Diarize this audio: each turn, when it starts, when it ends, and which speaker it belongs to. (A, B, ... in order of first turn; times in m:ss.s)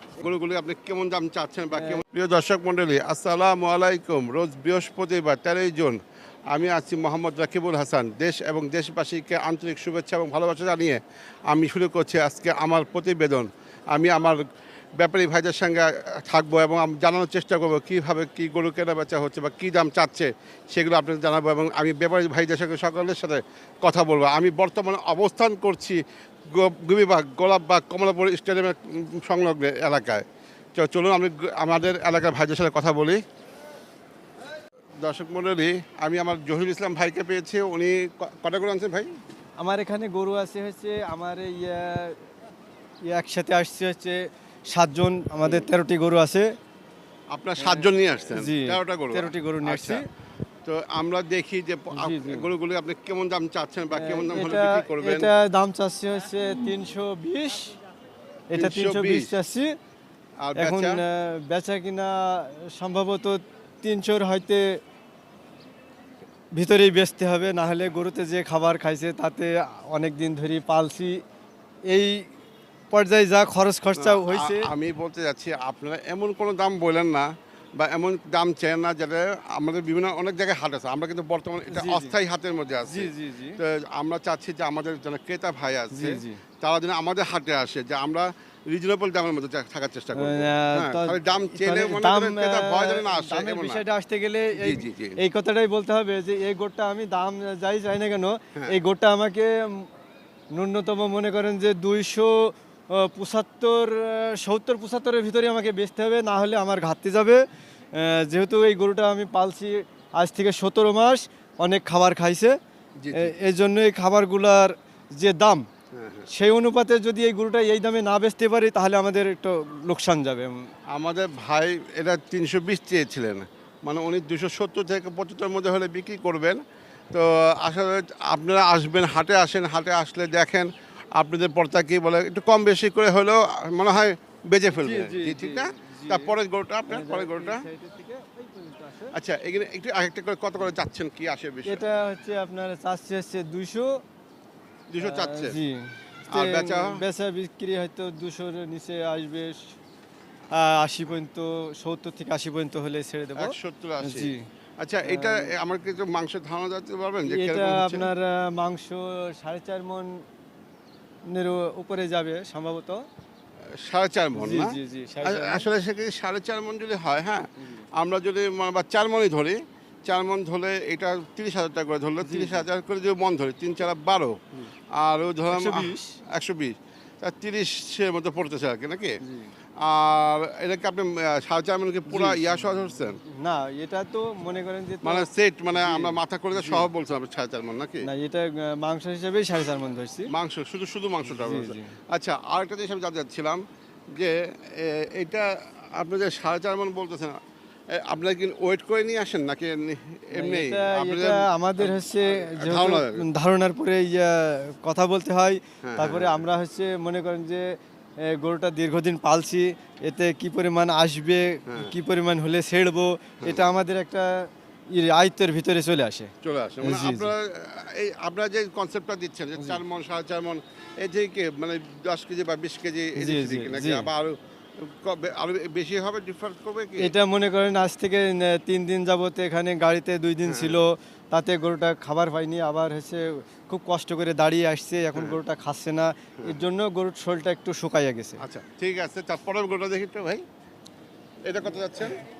0:00.2-0:06.0 A
0:01.7-0:02.0 B
0:06.5-0:14.4 A
0:15.0-0:30.2 A
0:30.8-0:33.2 A
0:35.0-0:39.1 A
0:39.6-0:42.2 B
0:43.1-0:46.4 B
0:47.3-0:50.0 A
0:47.6-0:50.0 B
0:50.6-0:55.3 A
0:51.9-0:52.5 B
0:53.9-0:57.8 B
0:58.5-0:59.7 B
0:58.5-0:59.3 A
1:00.4-1:01.0 A
1:00.6-1:04.6 B
1:06.6-1:11.2 B
1:11.9-1:12.2 B
1:12.9-1:14.7 B
1:14.0-1:33.8 A
1:21.7-1:22.1 B
1:22.9-1:23.6 B
1:25.9-1:26.4 B
1:30.2-1:39.9 B
1:34.6-1:35.2 A
1:40.5-1:47.4 B
1:47.9-1:52.5 B
1:53.0-1:53.3 A
1:53.1-1:55.6 B
1:55.9-1:56.3 A
1:56.3-2:00.5 B
2:00.9-2:06.6 A
2:07.1-2:17.7 A
2:14.7-2:19.1 B
2:19.1-2:21.8 A
2:21.7-2:23.9 B
2:24.9-2:25.6 A
2:25.0-2:29.6 B
2:26.3-2:27.0 A
2:30.5-2:34.4 B
2:33.4-2:38.1 A
2:35.0-2:35.5 B
2:37.2-2:40.1 B
2:41.3-2:43.0 B
2:43.8-2:54.4 A
2:44.3-2:45.7 B
2:47.6-2:47.8 B
2:52.2-2:52.6 B
2:55.0-2:59.2 A
2:55.5-2:56.2 B
2:59.2-2:59.5 B
2:59.8-3:03.2 A
3:02.0-3:06.9 B
3:05.0-3:08.1 A
3:08.0-3:10.3 B
3:10.3-3:13.6 A
3:11.2-3:11.9 B
3:14.1-3:17.4 A
3:17.9-3:23.2 A
3:20.3-3:27.7 B
3:25.8-3:26.4 A
3:28.3-3:36.3 B
3:31.7-3:31.9 A
3:36.4-3:47.1 A
3:36.8-3:37.3 B
3:43.2-3:44.1 B
3:47.0-3:58.4 B
3:50.4-3:50.8 A
3:56.4-3:56.7 A
3:58.4-4:00.4 A
4:01.5-4:02.2 A